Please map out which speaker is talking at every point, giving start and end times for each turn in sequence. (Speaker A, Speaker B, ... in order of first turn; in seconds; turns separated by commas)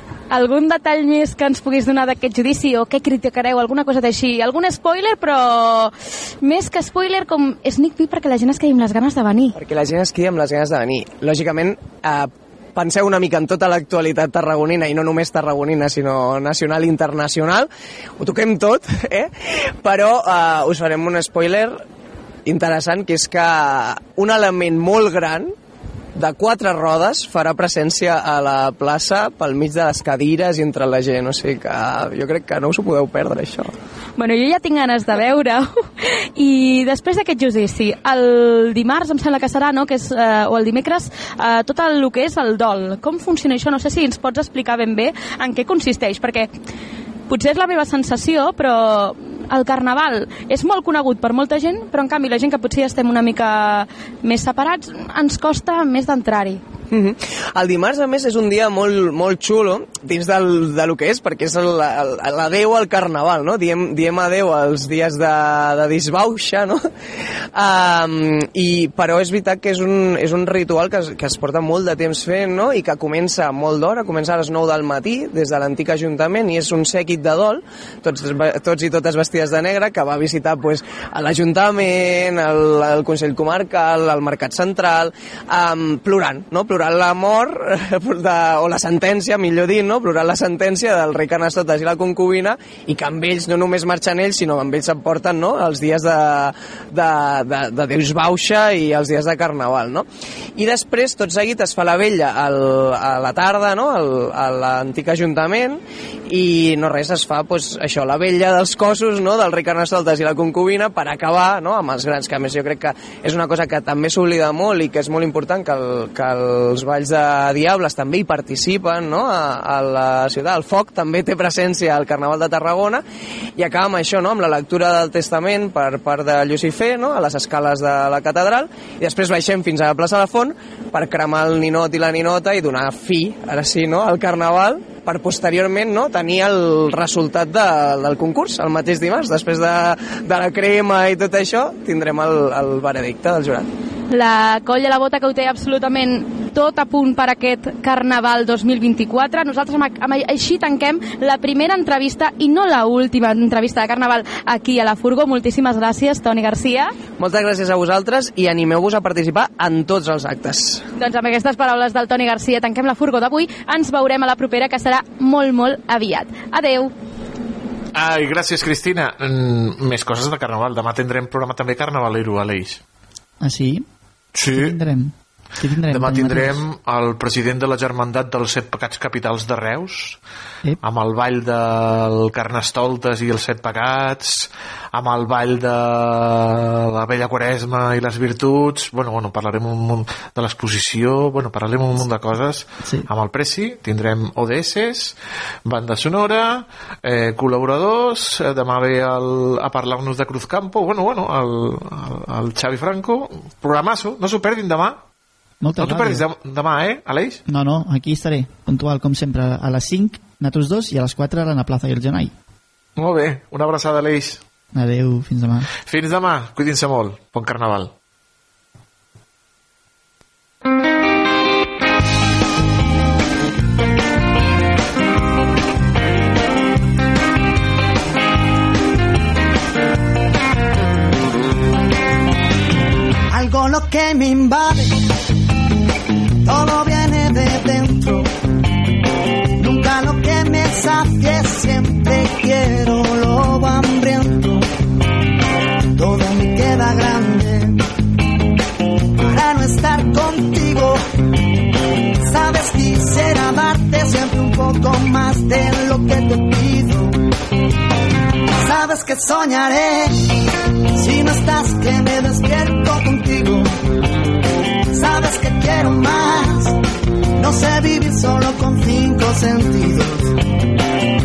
Speaker A: 0.3-9.5, Speaker B: 9.6-19.3, Speaker B: 19.8-21.8, Speaker B: 22.5-25.5, Speaker B: 26.2-33.7, Speaker A: 34.2-35.7, Speaker A: 36.4-46.5, Speaker A: 47.3-56.6, Speaker B: 56.9-66.8, Speaker B: 67.5-123.0, Speaker B: 123.6-143.7, Speaker A: 144.1-156.9, Speaker B: 157.2-160.8, Speaker A: 161.0-166.9, Speaker C: 167.9-172.8, Speaker D: 173.4-173.8, Speaker C: 174.3-174.8, Speaker D: 174.4-176.6, Speaker C: 175.9-180.2, Speaker C: 180.8-195.2, Speaker C: 195.7-205.0, Speaker D: 205.6-206.2, Speaker C: 205.8-207.4, Speaker D: 207.5-212.3, Speaker C: 213.0-214.4, Speaker D: 214.7-215.7, Speaker C: 215.9-217.9, Speaker E: 233.3-235.0, Speaker E: 236.4-238.3, Speaker E: 239.6-244.7, Speaker E: 246.0-247.8, Speaker E: 249.2-251.0, Speaker E: 252.2-257.2, Speaker E: 258.6-260.3, Speaker E: 260.9-263.7, Speaker E: 264.9-266.8, Speaker E: 267.4-270.4